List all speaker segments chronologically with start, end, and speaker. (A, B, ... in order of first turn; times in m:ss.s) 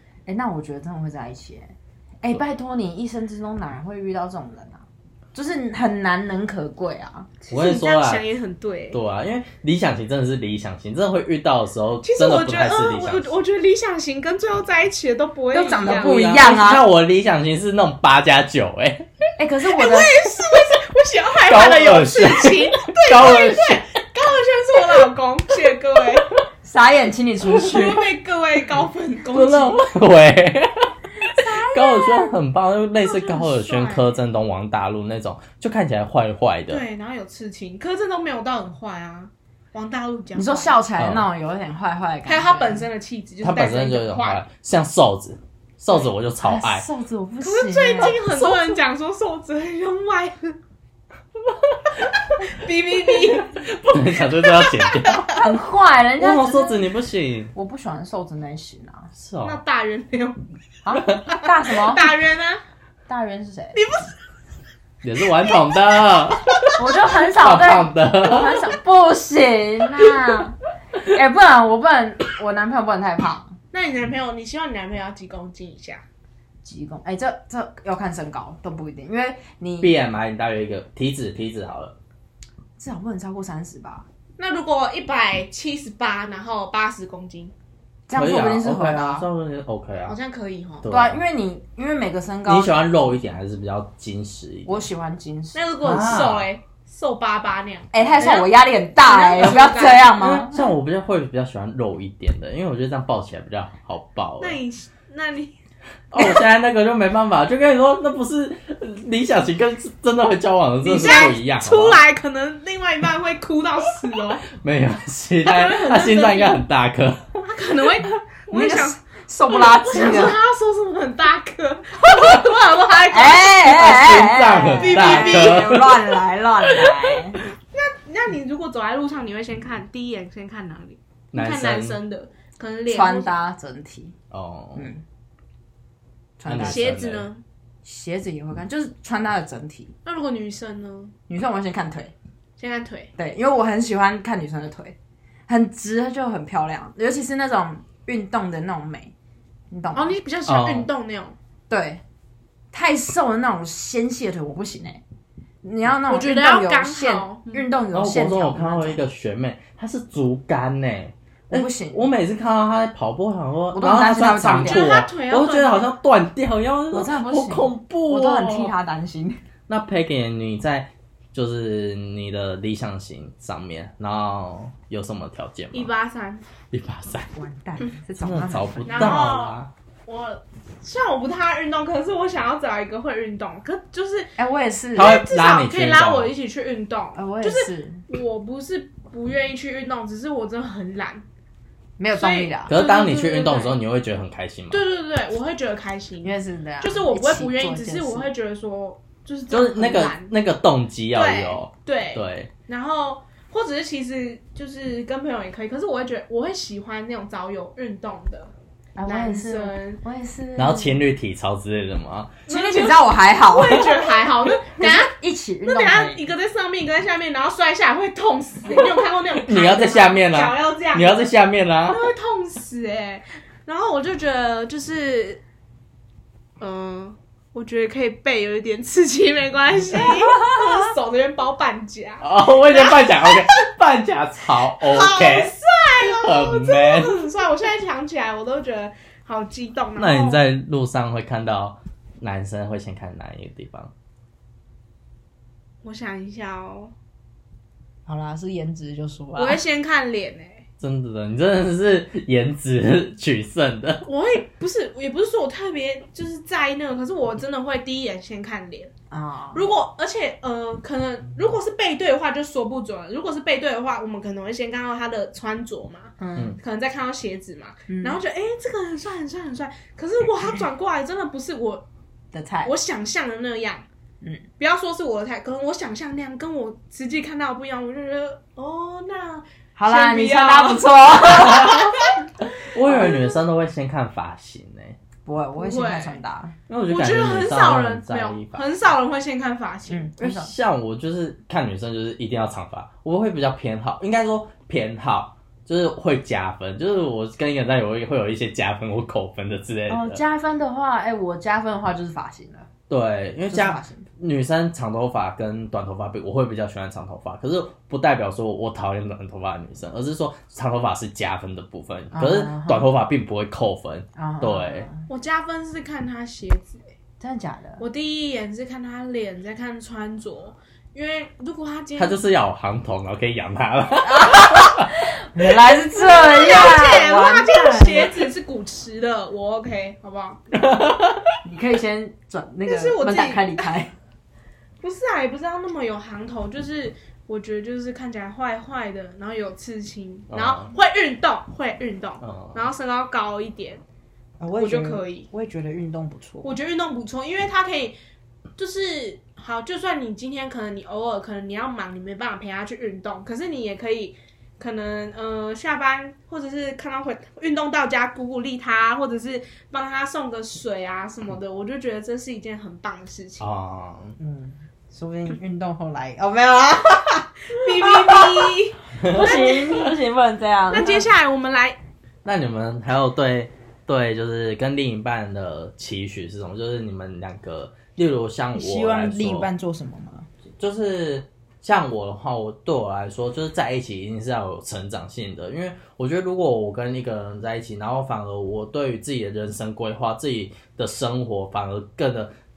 0:00.3-0:07.3 A
0:07.4-0:09.0 B
0:07.5-0:08.2 C
0:08.9-0:13.4 C
0:12.0-0:16.2 B
0:15.5-0:16.8 A
0:15.8-0:19.1 C
0:19.4-0:20.1 A
0:19.7-0:26.3 B
0:21.4-0:23.8 C
0:26.6-0:28.0 A
0:27.5-0:29.8 B
0:29.3-0:36.8 C
0:31.4-0:32.3 B
0:33.0-0:34.2 B
0:36.7-0:40.8 B
0:40.4-0:42.8 A
0:41.0-0:41.3 C
0:42.3-0:44.4 B
0:43.4-0:46.9 C
0:46.4-0:48.8 A
0:47.4-0:50.6 B
0:52.4-0:53.6 B
0:53.2-0:55.4 C
0:54.4-0:55.3 B
0:55.3-0:56.9 A
0:56.2-0:57.5 C
0:57.6-0:59.1 A
0:59.1-0:59.6 C
0:59.4-1:00.4 B
1:00.8-1:02.1 A
1:01.0-1:01.2 C
1:01.6-1:02.6 B
1:03.1-1:03.8 A
1:03.8-1:04.1 B
1:05.0-1:08.7 C
1:06.8-1:13.6 A
1:13.7-1:16.0 B
1:16.6-1:19.9 A
1:19.8-1:22.0 C
1:22.8-1:24.1 A
1:24.4-1:27.5 B
1:28.1-1:29.2 A
1:28.1-1:30.2 C
1:30.0-1:30.9 B
1:30.8-1:31.2 C
1:30.9-1:32.8 A
1:32.5-1:34.8 C
1:34.7-1:35.7 A
1:35.5-1:40.2 B
1:35.8-1:36.5 C
1:37.9-1:40.7 A
1:40.2-1:44.6 C
1:44.4-1:45.5 B
1:46.1-1:52.0 C
1:50.8-1:54.5 B
1:54.5-1:57.4 C
1:55.4-1:56.6 B
1:57.5-1:59.0 B
1:58.5-2:00.4 A
1:59.5-2:03.8 B
2:03.1-2:07.4 A
2:03.6-2:06.1 C
2:04.8-2:05.9 B
2:06.6-2:07.2 C
2:07.7-2:13.3 B
2:11.3-2:12.0 C
2:12.9-2:14.2 A
2:14.3-2:14.9 C
2:14.8-2:15.0 A
2:16.4-2:17.0 A
2:16.5-2:17.3 C
2:16.6-2:17.4 B
2:17.8-2:19.9 A
2:20.0-2:21.1 B
2:21.3-2:22.1 A
2:22.6-2:23.1 B
2:23.2-2:25.0 A
2:25.5-2:29.1 A
2:29.7-2:30.1 A
2:29.9-2:31.4 B
2:30.5-2:30.9 C
2:31.7-2:32.0 A
2:32.7-2:35.0 A
2:35.6-2:39.0 A
2:36.1-2:37.7 B
2:37.9-2:48.8 C
2:41.5-2:42.0 A
2:43.7-2:44.9 A
2:44.6-2:45.9 B
2:46.9-2:49.4 A
2:49.7-2:55.9 C
2:55.7-2:56.4 B
2:56.7-2:57.3 C
2:57.3-2:59.2 A
2:58.2-2:59.7 C
2:58.9-3:04.3 B
3:04.4-3:05.2 A
3:05.0-3:06.3 C
3:05.0-3:11.2 B
3:07.2-3:08.0 A
3:12.0-3:12.8 A
3:12.1-3:13.8 B
3:12.7-3:14.8 C
3:14.7-3:20.3 B
3:16.2-3:18.3 A
3:19.5-3:22.5 C
3:21.1-3:28.5 B
3:29.0-3:31.0 A
3:29.1-3:30.0 B
3:30.6-3:32.4 C
3:32.5-3:35.1 B
3:32.5-3:34.0 A
3:34.8-3:36.2 A
3:35.6-3:41.3 B
3:39.4-3:42.1 C
3:41.9-3:45.4 B
3:46.6-3:53.7 B
3:52.2-3:57.2 C
3:54.8-4:00.4 B
4:00.0-4:03.9 C
4:05.8-4:06.9 B
4:08.1-4:09.6 A
4:09.4-4:10.6 B
4:10.8-4:14.0 C
4:14.0-4:18.9 B
4:19.1-4:19.7 A
4:19.5-4:31.8 B
4:26.2-4:26.6 A
4:27.9-4:28.2 A
4:32.3-4:32.7 A
4:32.6-4:33.9 B
4:34.6-4:42.2 B
4:39.8-4:42.0 A
4:41.3-4:41.9 C
4:42.7-4:45.0 C
4:42.9-4:43.2 B
4:45.2-4:46.6 A
4:45.6-4:46.2 B
4:46.7-4:48.7 C
4:46.9-4:50.1 B
4:49.9-4:50.5 A
4:50.2-5:00.2 C
4:59.9-5:02.7 A
5:02.9-5:14.9 C
5:03.5-5:04.1 A
5:12.1-5:12.9 A
5:14.2-5:15.1 A
5:15.1-5:16.8 B
5:17.2-5:17.8 A
5:17.8-5:22.2 B
5:22.0-5:24.9 C
5:24.0-5:28.3 A
5:25.9-5:30.4 B
5:30.5-5:31.3 C
5:31.4-5:33.9 A
5:32.7-5:33.8 B
5:34.8-5:43.8 B
5:40.3-5:40.7 C
5:42.2-5:42.6 C
5:44.4-5:46.6 A
5:44.6-5:45.3 B
5:46.4-5:48.0 B
5:48.6-6:03.5 B
6:03.4-6:04.2 C
6:04.2-6:08.5 A
6:07.5-6:09.9 B
6:09.0-6:09.4 C
6:09.0-6:11.1 A
6:10.7-6:11.8 B
6:12.2-6:19.5 C
6:18.6-6:20.3 A
6:20.6-6:32.3 C